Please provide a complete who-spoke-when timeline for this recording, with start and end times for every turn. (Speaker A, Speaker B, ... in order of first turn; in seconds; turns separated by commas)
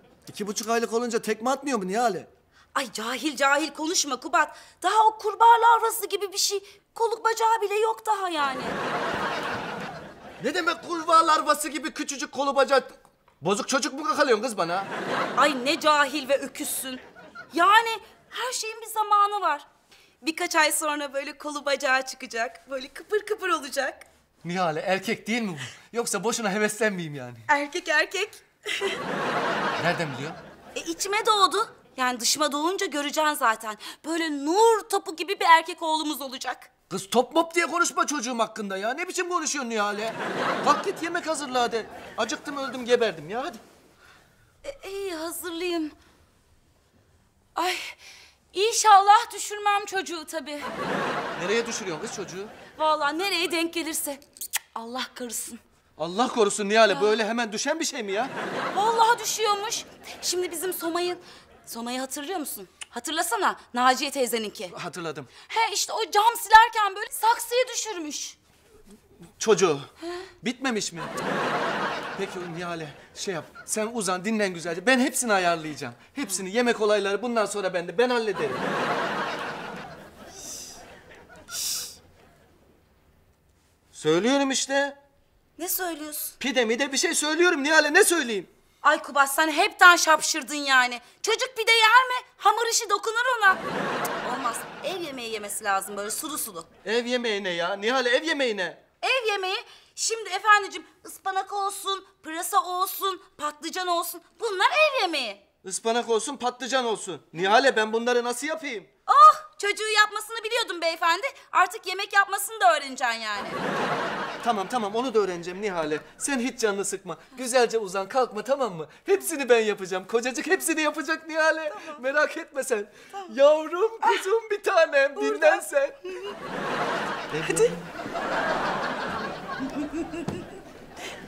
Speaker A: 0.3-2.3, Speaker B: 2.8-8.8, Speaker A: 10.4-14.9, Speaker B: 15.3-19.7, Speaker B: 20.2-24.1, Speaker A: 24.4-27.4, Speaker B: 27.5-29.0, Speaker A: 29.8-30.4, Speaker B: 30.8-36.7, Speaker A: 36.9-43.6, Speaker B: 44.6-46.0, Speaker B: 47.5-48.0, Speaker B: 48.5-50.7, Speaker A: 51.4-52.5, Speaker B: 52.7-54.2, Speaker B: 54.7-55.6, Speaker A: 56.0-58.3, Speaker B: 56.9-57.2, Speaker B: 58.7-64.8, Speaker A: 64.7-65.3, Speaker B: 65.4-68.4, Speaker A: 69.4-69.9, Speaker A: 70.4-71.1, Speaker A: 72.2-78.6, Speaker A: 83.9-85.0, Speaker B: 85.6-86.3, Speaker A: 86.4-88.5, Speaker B: 88.8-93.6, Speaker B: 94.2-96.7, Speaker A: 96.8-98.8, Speaker B: 99.0-105.4, Speaker A: 105.6-108.9, Speaker B: 109.1-113.6, Speaker A: 114.4-126.0, Speaker B: 125.2-125.6, Speaker A: 127.3-127.8